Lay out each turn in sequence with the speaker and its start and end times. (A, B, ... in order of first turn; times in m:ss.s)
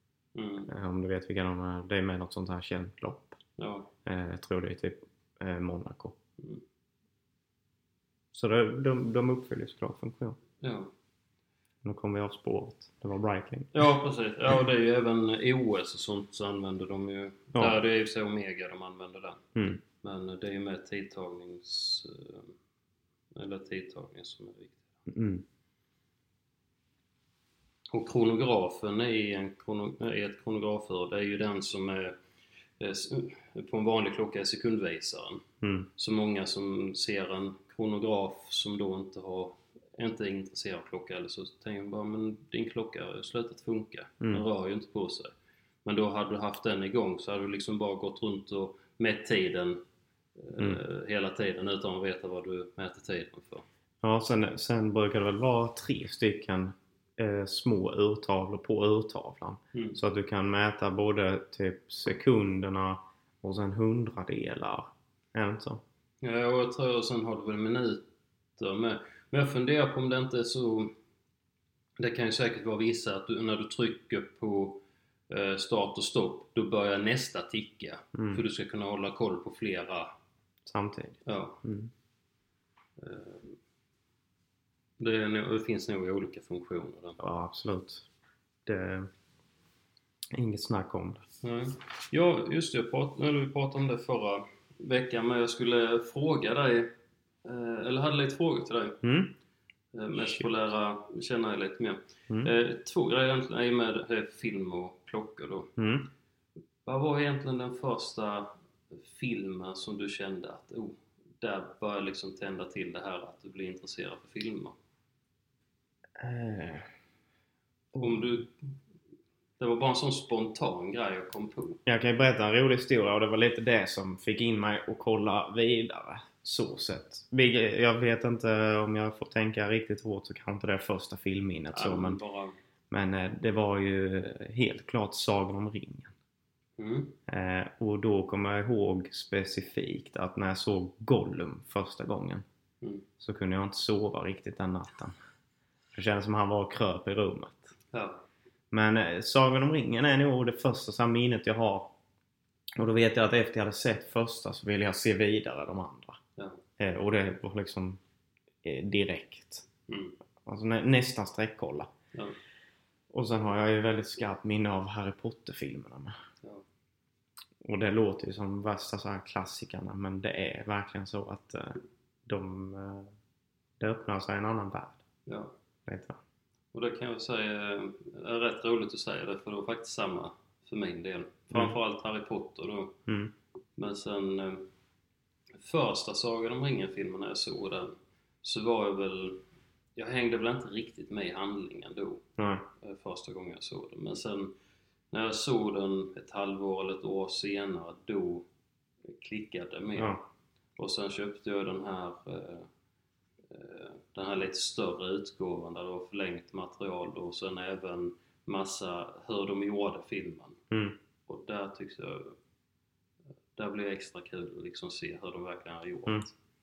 0:00.3-0:00.7 A
0:00.7-0:03.4 B
0:03.6-0:03.9 A
0:04.0-0:06.2 B
0:08.3-0:10.4 B
0:10.6-0:10.9 A
0:11.8-0:13.9 B
0:13.7-0:19.4 A
0:19.5-0:19.8 B
0:20.0-0:22.5 A
0:23.3-0:24.9 A
0:25.1-0:25.4 B
0:27.9-0:32.1 A
0:32.8-0:35.4 A
0:35.6-0:35.9 B
0:36.0-0:45.3 A
0:45.8-0:49.8 A
0:50.4-0:53.6 A
0:54.0-1:05.8 B
1:06.2-1:08.0 A
1:08.6-1:10.9 A
1:12.0-1:20.1 A
1:18.1-1:18.4 B
1:20.6-1:21.9 B
1:21.2-1:21.6 A
1:23.0-1:23.6 A
1:25.0-1:27.2 A
1:27.2-1:28.0 B
1:28.6-1:29.1 B
1:30.3-1:31.2 B
1:31.4-1:36.9 A
1:37.4-1:39.0 A
1:39.0-1:39.3 B
1:39.9-1:45.7 A
1:40.2-1:40.5 B
1:45.8-1:46.1 B
1:46.8-1:54.7 A
1:56.2-1:56.9 B
1:57.9-1:58.3 B
1:58.0-1:58.6 A
1:59.6-2:01.8 A
2:01.8-2:12.2 B
2:11.7-2:12.6 A
2:12.9-2:16.1 B
2:16.8-2:17.2 A
2:17.3-2:22.4 B
2:23.2-2:25.1 B
2:25.9-2:27.7 B
2:27.9-2:28.2 A
2:28.7-2:31.9 B
2:32.8-2:36.2 B
2:36.8-2:38.0 B
2:38.6-2:39.7 B
2:39.9-2:40.2 A
2:40.4-2:41.9 B
2:43.1-2:46.1 B
2:47.6-2:53.1 B
2:53.8-2:55.0 B
2:55.3-2:55.5 A
2:55.8-2:56.2 B
2:56.7-3:03.0 A
3:03.1-3:03.3 B
3:03.8-3:04.7 A
3:05.6-3:09.4 A
3:10.0-3:12.2 A
3:12.4-3:12.6 B
3:12.8-3:14.5 A
3:15.1-3:18.4 A
3:19.1-3:20.2 A
3:20.8-3:22.7 A
3:23.5-3:30.6 A
3:30.7-3:31.0 B
3:31.3-3:32.4 A
3:33.6-3:36.3 A